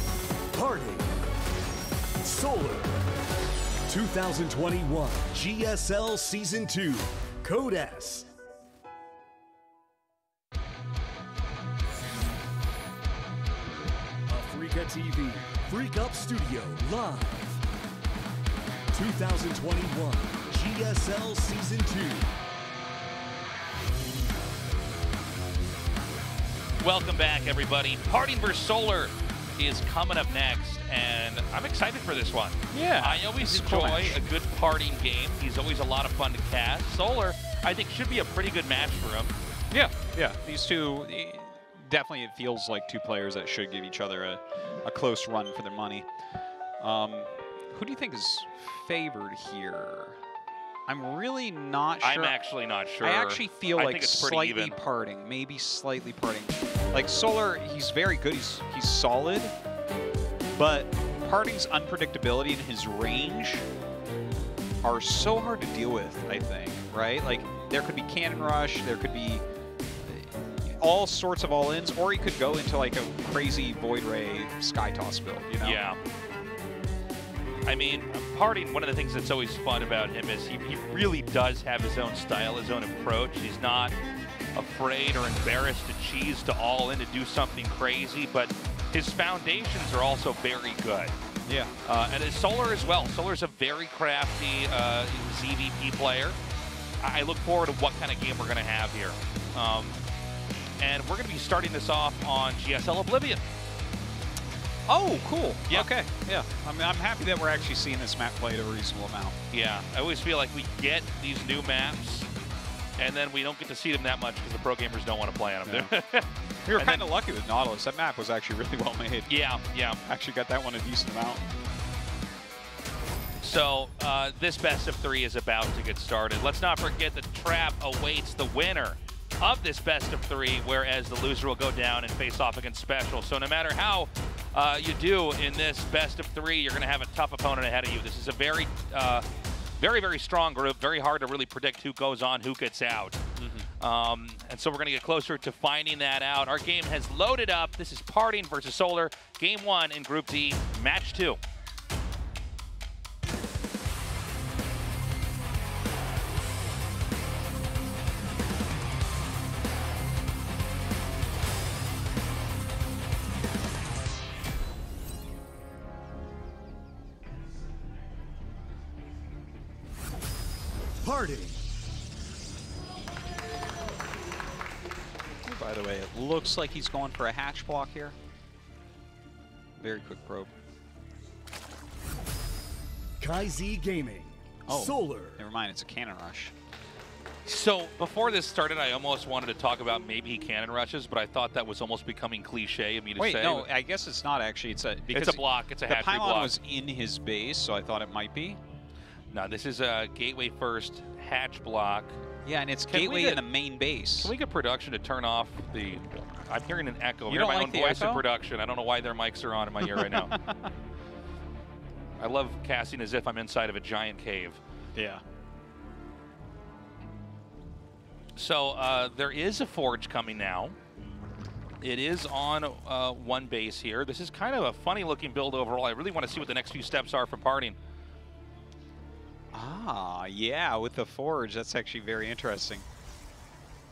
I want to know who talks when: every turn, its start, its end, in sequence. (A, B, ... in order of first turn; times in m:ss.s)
0:00.5-0:01.1 A
0:02.2-0:02.9 A
0:03.9-0:08.3 A
0:14.3-0:17.6 A
0:18.9-0:22.3 A
0:26.8-0:39.3 B
0:32.7-0:34.2 C
0:39.7-0:46.1 C
0:46.8-0:50.2 C
0:50.9-0:52.4 C
0:52.0-0:54.8 B
0:53.0-0:59.5 C
1:00.5-1:03.6 C
1:04.8-1:09.4 C
1:10.0-1:15.8 C
1:15.6-1:16.0 B
1:17.7-1:24.0 B
1:24.6-1:31.1 B
1:31.4-1:31.7 C
1:31.8-1:36.4 B
1:37.0-1:40.0 B
1:40.8-1:43.4 B
1:44.9-1:49.3 C
1:49.5-1:52.3 B
1:53.0-1:57.0 B
1:55.6-1:55.9 C
1:56.7-1:59.3 C
1:59.3-2:00.0 B
2:00.0-2:01.4 C
2:03.4-2:19.2 B
2:19.8-2:23.2 B
2:23.4-2:23.7 C
2:23.8-2:31.4 B
2:51.0-2:51.6 A
2:55.4-2:58.2 C
2:59.8-3:00.5 C
3:03.2-3:05.4 A
3:04.7-3:06.5 C
3:07.4-3:13.7 B
3:13.2-3:18.6 C
3:15.1-3:16.5 B
3:19.3-3:22.2 B
3:22.4-3:24.3 C
3:22.8-3:23.4 B
3:24.2-3:30.3 B
3:27.3-3:28.2 C
3:29.8-3:30.7 C
3:32.2-3:34.6 B
3:34.9-3:35.2 C
3:38.4-3:40.8 B
3:41.8-3:47.8 B
3:49.5-3:52.8 C